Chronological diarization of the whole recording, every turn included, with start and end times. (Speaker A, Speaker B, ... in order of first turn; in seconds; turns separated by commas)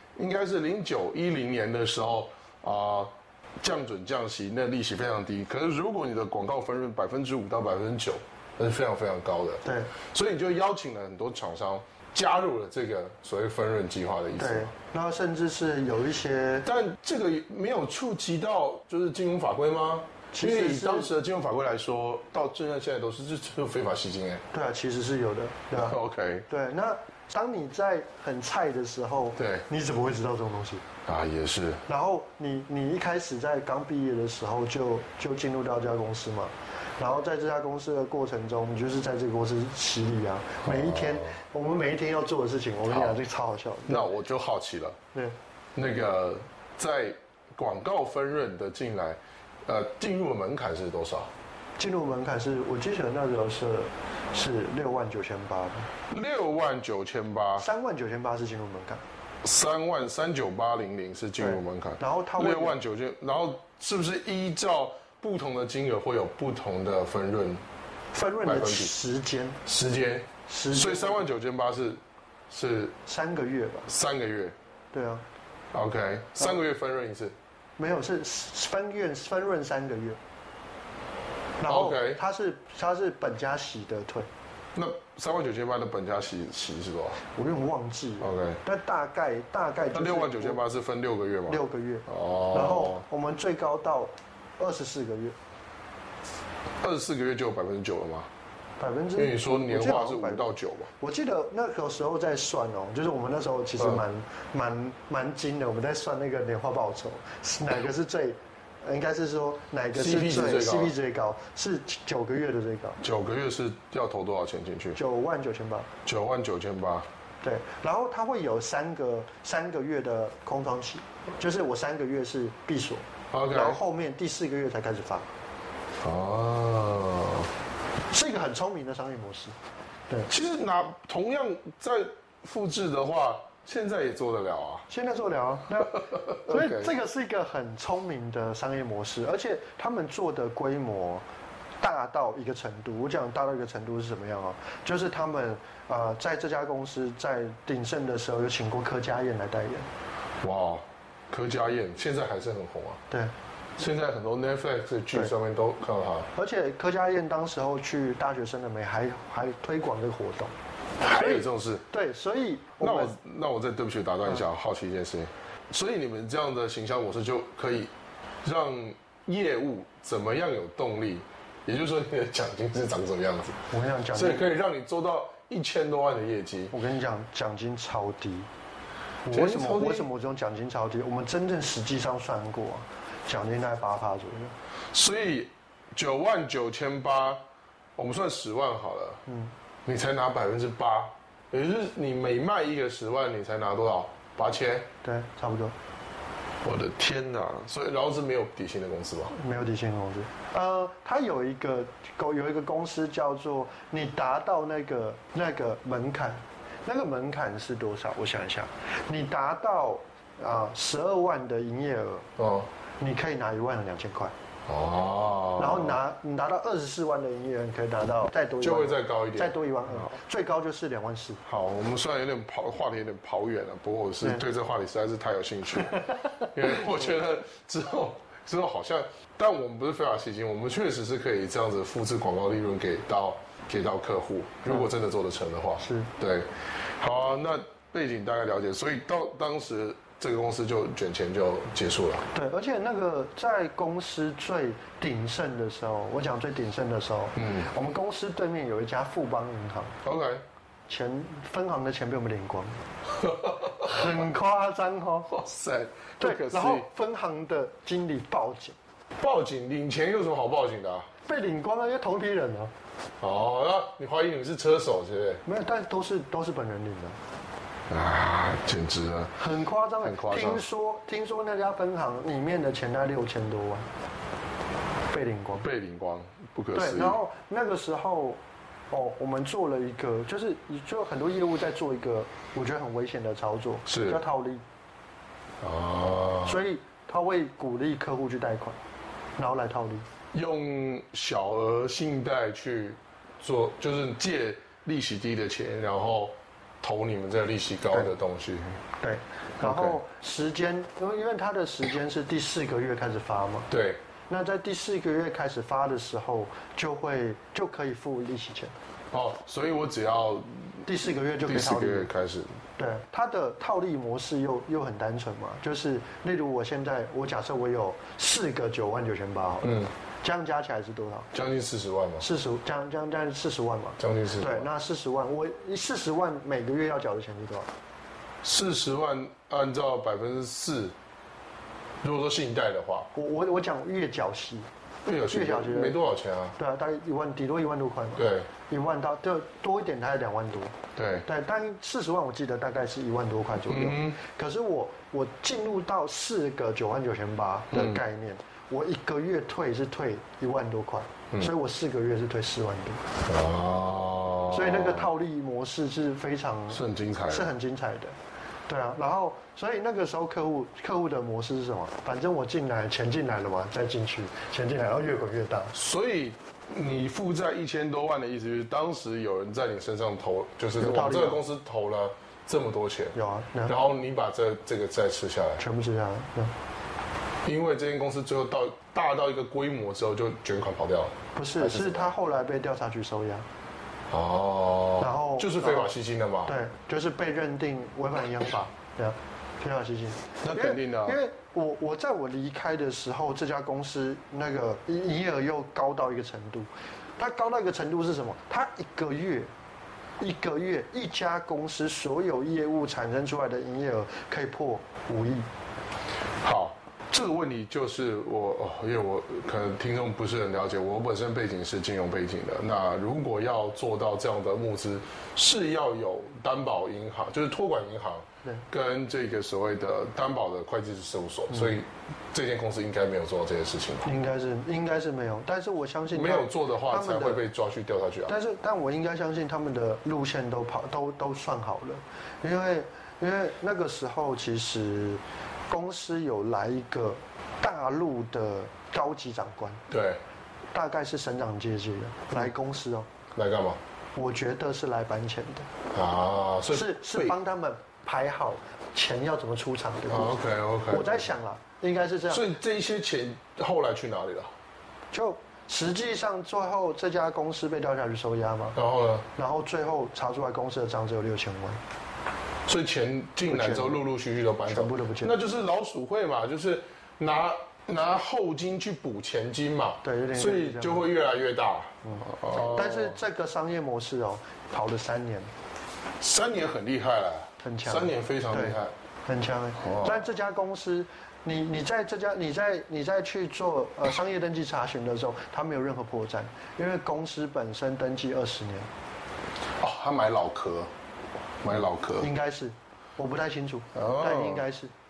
Speaker A: 0.1-14.7, Speaker B: 9.6-9.9, Speaker B: 14.4-16.7, Speaker A: 16.6-24.4, Speaker B: 20.3-21.1, Speaker B: 24.5-26.0, Speaker A: 25.8-26.4, Speaker B: 26.5-30.8, Speaker A: 29.4-29.6, Speaker A: 31.1-31.8, Speaker B: 31.9-44.1, Speaker A: 40.6-41.4, Speaker A: 42.8-43.2, Speaker A: 43.9-45.0, Speaker A: 45.7-51.3, Speaker B: 51.8-55.9, Speaker A: 56.1-57.6, Speaker B: 57.6-59.0, Speaker A: 59.4-67.6, Speaker B: 61.4-62.8, Speaker B: 68.1-69.6, Speaker A: 68.4-68.9, Speaker A: 69.6-73.0, Speaker B: 70.5-71.2, Speaker B: 73.0-73.9, Speaker A: 73.9-74.5, Speaker B: 74.9-75.2, Speaker A: 75.7-77.3, Speaker B: 77.8-80.2, Speaker B: 81.6-84.3, Speaker A: 81.7-82.2, Speaker A: 84.7-87.2, Speaker B: 87.3-90.6, Speaker A: 88.2-88.6, Speaker A: 89.9-93.0, Speaker B: 91.5-95.3, Speaker A: 96.8-98.3, Speaker B: 98.8-100.5, Speaker A: 99.2-100.9, Speaker B: 101.0-113.0, Speaker A: 109.9-110.9, Speaker A: 113.0-115.0, Speaker B: 114.9-115.9, Speaker A: 116.0-117.1, Speaker B: 117.4-125.3, Speaker A: 123.3-123.8, Speaker A: 126.0-127.5, Speaker B: 128.1-129.5, Speaker A: 130.3-134.8, Speaker B: 134.9-141.2, Speaker A: 135.8-136.9, Speaker B: 141.8-149.9, Speaker A: 150.4-153.0, Speaker A: 153.8-156.3, Speaker B: 156.3-160.5, Speaker A: 161.0-161.8, Speaker B: 161.1-163.1, Speaker A: 162.8-167.9, Speaker A: 168.4-176.7, Speaker B: 173.7-174.5, Speaker B: 176.7-178.5, Speaker B: 179.2-184.5, Speaker A: 179.3-180.1, Speaker A: 184.9-187.4, Speaker A: 187.9-189.2, Speaker B: 189.3-189.5, Speaker A: 189.8-194.9, Speaker B: 195.0-195.7, Speaker A: 196.6-199.3, Speaker B: 199.3-212.3, Speaker A: 212.4-212.7, Speaker B: 213.0-214.3, Speaker A: 214.7-216.0, Speaker B: 215.6-221.4, Speaker A: 218.6-220.1, Speaker A: 221.4-242.2, Speaker B: 235.8-236.1, Speaker B: 242.3-249.9, Speaker A: 247.4-247.7, Speaker A: 250.0-250.4, Speaker B: 250.9-252.8, Speaker A: 253.2-254.1, Speaker B: 253.7-255.3, Speaker A: 255.3-256.9, Speaker B: 256.2-258.8, Speaker A: 259.2-261.1, Speaker B: 261.2-262.7, Speaker A: 263.2-265.4, Speaker B: 265.4-267.2, Speaker A: 267.9-269.3, Speaker B: 269.4-273.9, Speaker A: 270.0-270.6, Speaker B: 275.1-275.6, Speaker A: 275.6-277.2, Speaker B: 276.7-278.4, Speaker B: 278.9-284.6, Speaker A: 283.9-284.2, Speaker A: 285.6-286.6, Speaker B: 286.4-288.8, Speaker B: 289.4-290.1, Speaker A: 290.3-298.8, Speaker B: 299.0-303.7, Speaker A: 299.6-300.0, Speaker A: 303.7-304.0, Speaker B: 304.3-308.7, Speaker A: 309.1-310.8, Speaker B: 310.9-312.1, Speaker A: 311.5-312.6, Speaker B: 312.8-321.3, Speaker A: 319.6-319.9, Speaker A: 321.3-322.2, Speaker B: 322.2-327.7, Speaker A: 324.0-324.7, Speaker A: 328.4-330.9, Speaker A: 332.0-333.1, Speaker B: 333.1-334.7, Speaker A: 335.0-336.5, Speaker B: 335.3-336.0, Speaker B: 336.6-353.0, Speaker A: 338.2-338.5, Speaker A: 340.9-341.2, Speaker A: 343.7-344.2, Speaker A: 347.7-348.0, Speaker A: 353.2-355.1, Speaker B: 354.5-358.1, Speaker A: 356.7-357.5, Speaker B: 358.7-365.7, Speaker A: 365.7-375.6, Speaker B: 370.8-371.4, Speaker B: 373.1-373.8, Speaker B: 375.6-376.5, Speaker A: 377.4-382.1, Speaker B: 381.4-383.4, Speaker A: 384.1-386.5, Speaker B: 385.0-385.9, Speaker B: 386.4-399.5, Speaker A: 390.4-391.2, Speaker B: 400.2-405.5, Speaker A: 406.4-424.1, Speaker B: 424.0-427.4, Speaker A: 426.1-428.3, Speaker B: 428.3-439.8, Speaker A: 439.9-440.2, Speaker B: 440.7-443.1, Speaker A: 443.3-443.8, Speaker B: 444.1-445.7, Speaker A: 445.9-447.3, Speaker B: 446.7-452.4, Speaker A: 450.1-451.2, Speaker A: 452.3-454.5, Speaker B: 455.1-458.8, Speaker A: 458.8-459.3, Speaker B: 459.3-461.8, Speaker A: 462.6-473.1, Speaker B: 463.4-464.0, Speaker B: 464.7-465.4, Speaker B: 470.0-471.1, Speaker B: 472.1-475.5, Speaker A: 476.2-478.9, Speaker B: 477.6-488.9, Speaker A: 479.8-480.2, Speaker A: 489.8-490.9, Speaker A: 491.6-492.3, Speaker B: 492.2-494.9, Speaker A: 493.9-494.6